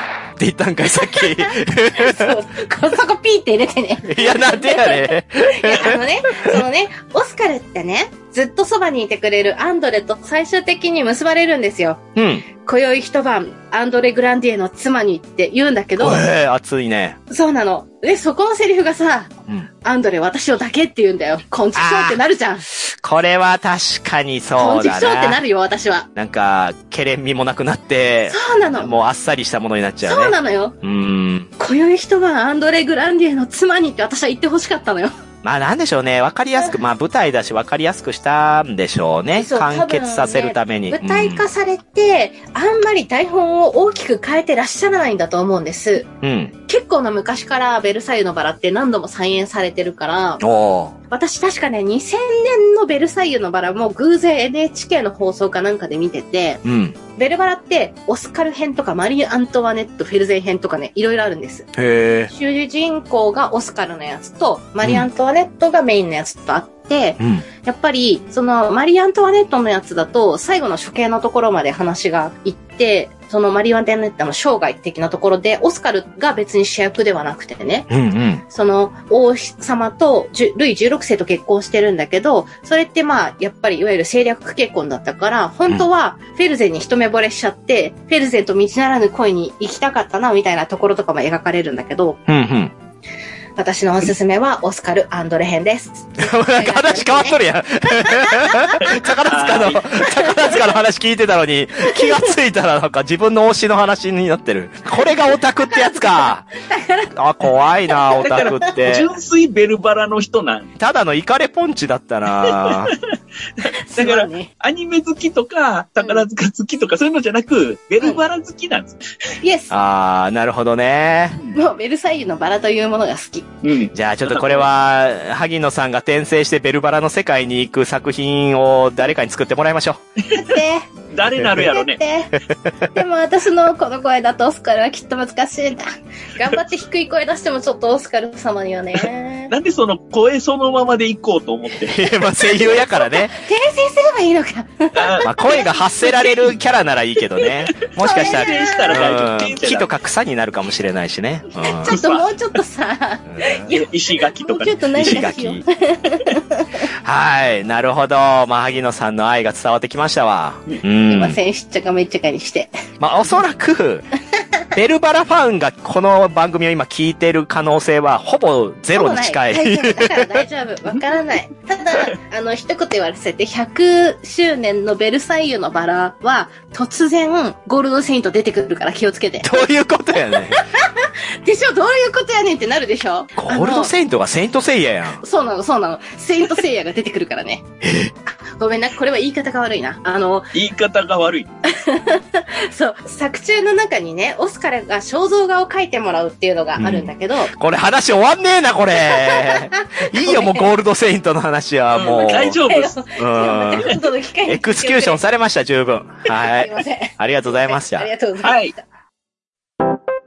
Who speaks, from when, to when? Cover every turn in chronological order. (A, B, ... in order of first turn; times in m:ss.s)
0:00.4-0:02.3 A
0:00.9-0:12.0 B
0:04.0-0:06.5 A
0:12.2-0:12.4 A
0:12.6-0:16.2 B
0:16.0-0:17.2 A
0:17.3-0:19.3 B
0:19.8-0:22.7 B
0:21.7-0:22.2 A
0:22.8-0:25.4 A
0:24.6-0:26.1 B
0:26.2-0:31.5 A
0:28.3-0:29.0 B
0:30.1-0:30.8 B
0:31.6-0:35.1 B
0:35.4-0:41.4 A
0:39.4-0:46.1 B
0:46.2-0:46.5 A
0:46.6-0:50.4 B
0:50.4-0:50.9 A
0:51.1-0:56.6 B
0:56.6-0:56.9 A
0:57.2-1:01.7 B
1:01.8-1:02.3 A
1:02.3-1:17.9 B
1:04.8-1:05.1 A
1:07.2-1:07.4 A
1:17.9-1:18.4 A
1:18.4-1:32.2 B
1:32.3-1:32.7 A
1:33.6-1:37.4 B
1:36.2-1:46.5 A
1:37.9-1:38.8 B
1:38.8-1:39.9 C
1:40.0-1:40.6 B
1:45.7-1:47.1 B
1:47.1-1:49.1 A
1:47.9-1:48.7 B
1:48.2-1:50.7 C
1:50.8-1:52.9 A
1:52.4-1:59.1 C
1:53.7-1:54.5 B
1:59.4-1:59.7 B
1:59.7-2:01.4 A
2:01.5-2:03.5 B
2:03.6-2:04.7 C
2:03.9-2:10.0 A
2:10.2-2:10.6 C
2:10.3-2:10.9 B
2:11.1-2:12.0 C
2:11.5-2:12.3 B
2:12.4-2:12.9 A
2:12.9-2:19.5 B
2:19.0-2:22.0 C
2:21.9-2:23.3 A
2:22.5-2:25.9 B
2:24.9-2:26.5 C
2:25.2-2:31.9 A
2:28.0-2:29.0 B
2:28.0-2:29.9 C
2:31.6-2:36.9 B
2:31.8-2:32.3 C
2:33.3-2:33.7 A
2:33.7-2:34.8 C
2:35.0-2:35.6 A
2:37.0-2:41.4 A
2:41.1-2:42.7 B
2:43.0-2:44.0 A
2:44.7-2:50.4 A
2:48.9-2:59.6 B
2:59.4-3:00.6 A
3:00.3-3:03.9 B
3:03.4-3:05.2 A
3:05.2-3:07.6 B
3:07.8-3:08.1 A
3:08.3-3:10.5 B
3:10.5-3:11.5 C
3:11.7-3:17.5 B
3:16.8-3:22.6 A
3:19.1-3:20.6 B
3:21.9-3:23.0 C
3:22.6-3:25.2 B
3:23.2-3:23.9 A
3:24.4-3:28.1 A
3:26.4-3:28.8 B
3:28.4-3:28.7 C